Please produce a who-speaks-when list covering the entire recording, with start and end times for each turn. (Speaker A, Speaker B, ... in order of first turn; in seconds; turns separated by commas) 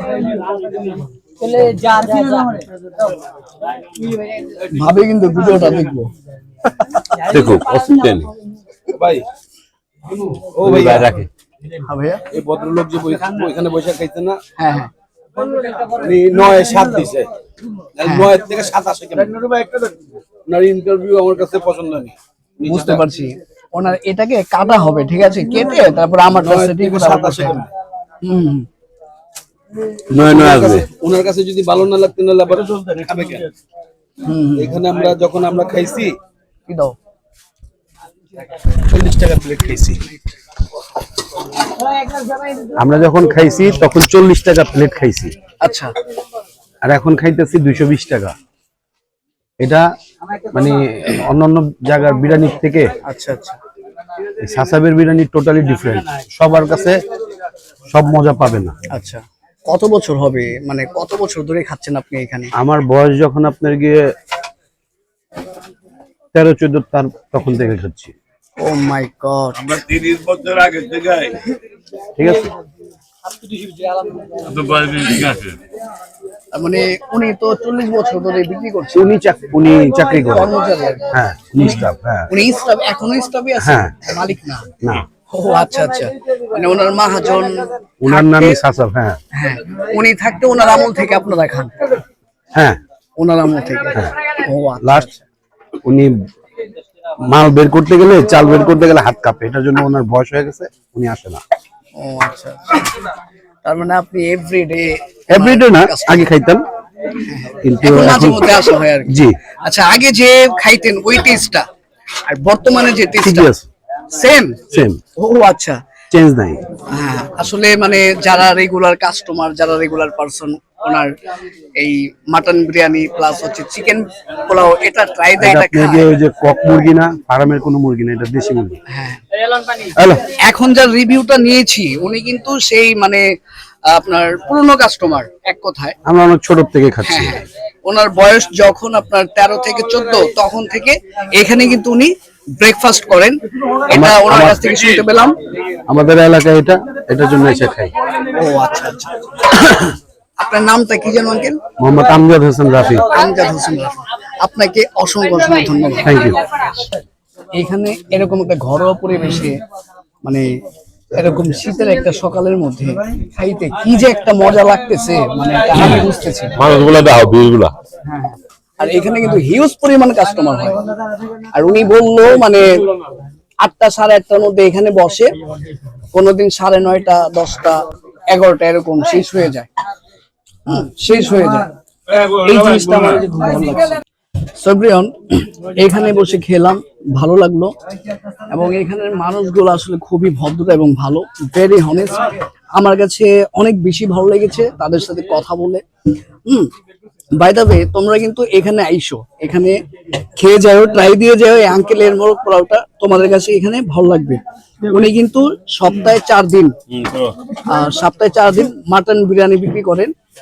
Speaker A: 4.5-6.1, Speaker B: 7.1-8.3, Speaker C: 8.9-9.2, Speaker C: 10.6-11.1, Speaker B: 10.6-11.3, Speaker A: 11.7-12.2, Speaker C: 12.3-14.4, Speaker A: 14.6-14.9, Speaker C: 15.9-17.3, Speaker C: 18.0-19.9, Speaker A: 18.0-18.3, Speaker C: 20.5-22.1, Speaker C: 22.6-23.0, Speaker A: 22.6-27.6, Speaker C: 26.4-27.6, Speaker A: 28.2-28.7, Speaker B: 30.1-30.9, Speaker C: 30.1-33.4, Speaker A: 34.2-34.8, Speaker C: 34.6-36.1, Speaker A: 36.7-37.0, Speaker C: 38.9-40.0, Speaker D: 39.3-39.9, Speaker D: 42.7-45.4, Speaker A: 45.6-45.9, Speaker D: 46.9-48.4, Speaker D: 50.5-52.9, Speaker A: 53.1-53.6, Speaker D: 54.4-57.0, Speaker D: 57.9-58.8, Speaker A: 58.9-62.5, Speaker D: 62.6-64.0, Speaker D: 66.3-68.1, Speaker A: 68.6-69.8, Speaker E: 69.7-71.3, Speaker D: 72.2-72.5, Speaker E: 74.6-75.2, Speaker B: 74.6-75.4, Speaker A: 76.5-79.1, Speaker D: 79.0-80.5, Speaker A: 80.2-81.1, Speaker D: 81.1-82.3, Speaker A: 82.3-84.7, Speaker D: 83.6-83.9, Speaker A: 85.3-88.6, Speaker D: 88.0-89.2, Speaker A: 89.3-91.8, Speaker A: 93.2-95.2, Speaker D: 94.8-95.1, Speaker D: 95.8-96.2, Speaker D: 97.3-101.4, Speaker A: 102.0-103.1, Speaker A: 103.7-106.4, Speaker D: 105.3-106.7, Speaker A: 107.2-111.7, Speaker D: 107.6-108.5, Speaker D: 109.1-109.4, Speaker A: 112.3-113.5, Speaker D: 113.2-113.6, Speaker A: 114.1-115.8, Speaker D: 116.1-116.6, Speaker A: 116.8-121.1, Speaker A: 121.8-126.1, Speaker D: 125.4-128.8, Speaker A: 128.9-129.2, Speaker D: 129.9-130.2, Speaker A: 130.2-133.2, Speaker A: 133.9-136.0, Speaker D: 136.1-137.3, Speaker A: 137.0-145.3, Speaker D: 143.9-145.0, Speaker D: 145.9-147.9, Speaker A: 148.3-151.6, Speaker D: 151.8-153.1, Speaker A: 153.0-156.3, Speaker D: 156.1-156.4, Speaker A: 157.6-159.6, Speaker A: 161.1-166.6, Speaker B: 166.6-167.7, Speaker A: 168.1-170.8, Speaker A: 171.5-172.8, Speaker A: 173.6-175.4, Speaker A: 176.1-179.7, Speaker A: 180.7-181.7, Speaker A: 182.2-184.0, Speaker A: 184.6-187.7, Speaker A: 188.5-195.8, Speaker A: 197.4-199.8, Speaker A: 200.4-206.7, Speaker B: 207.0-207.2, Speaker A: 207.7-210.1